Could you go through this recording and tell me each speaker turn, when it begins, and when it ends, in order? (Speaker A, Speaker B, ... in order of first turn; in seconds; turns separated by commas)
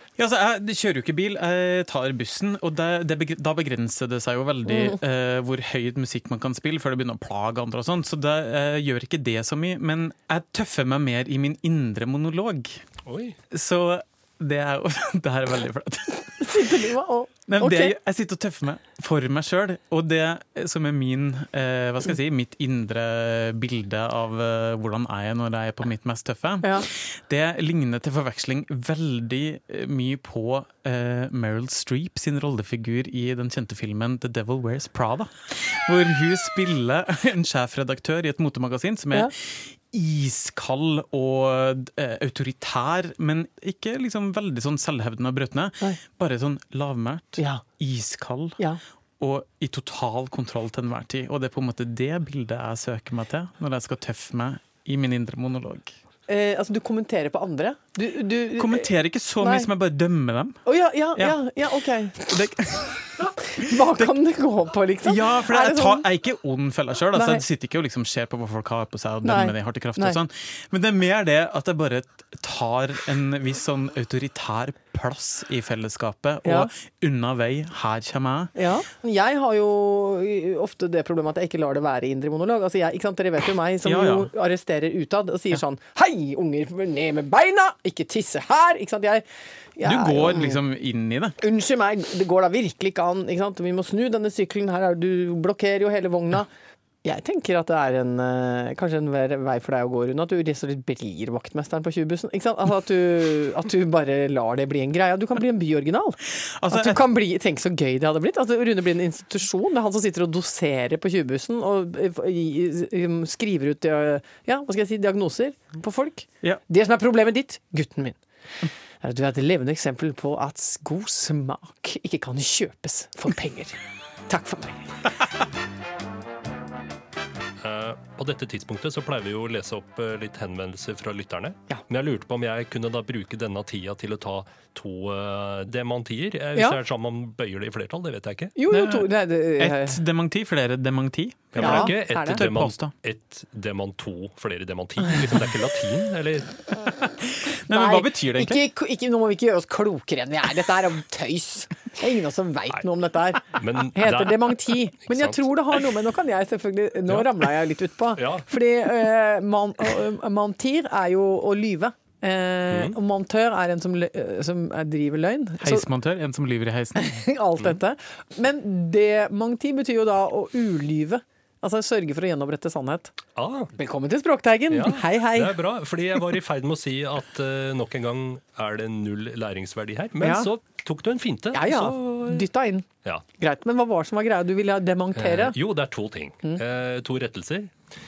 Speaker A: 0.2-12.8, Speaker B: 13.1-13.4, Speaker A: 13.5-16.8, Speaker C: 16.4-17.9, Speaker A: 17.5-48.6, Speaker C: 47.4-47.6, Speaker A: 49.2-55.9, Speaker C: 56.3-59.7, Speaker A: 58.6-60.6, Speaker C: 60.6-62.5, Speaker A: 62.2-64.1, Speaker C: 63.4-66.0, Speaker A: 65.0-78.5, Speaker C: 67.1-67.4, Speaker C: 69.2-70.2, Speaker C: 76.4-76.7, Speaker C: 78.5-89.2, Speaker A: 83.8-84.3, Speaker C: 89.8-90.6, Speaker A: 89.8-91.3, Speaker C: 91.4-96.5, Speaker C: 97.0-106.2, Speaker A: 106.4-107.0, Speaker C: 106.7-118.2, Speaker C: 119.0-123.8, Speaker C: 124.3-125.0, Speaker B: 127.6-138.5, Speaker C: 138.6-140.0, Speaker A: 138.7-142.9, Speaker B: 141.5-146.5, Speaker C: 141.6-142.4, Speaker A: 146.8-148.6, Speaker C: 147.7-165.8, Speaker B: 153.5-155.8, Speaker B: 158.2-158.4, Speaker B: 162.7-162.9, Speaker A: 165.6-167.2, Speaker C: 166.9-173.1, Speaker B: 173.3-173.7, Speaker C: 173.7-175.6, Speaker B: 174.7-182.4, Speaker C: 180.2-180.5, Speaker C: 181.5-182.9, Speaker C: 183.4-185.6, Speaker B: 185.2-187.7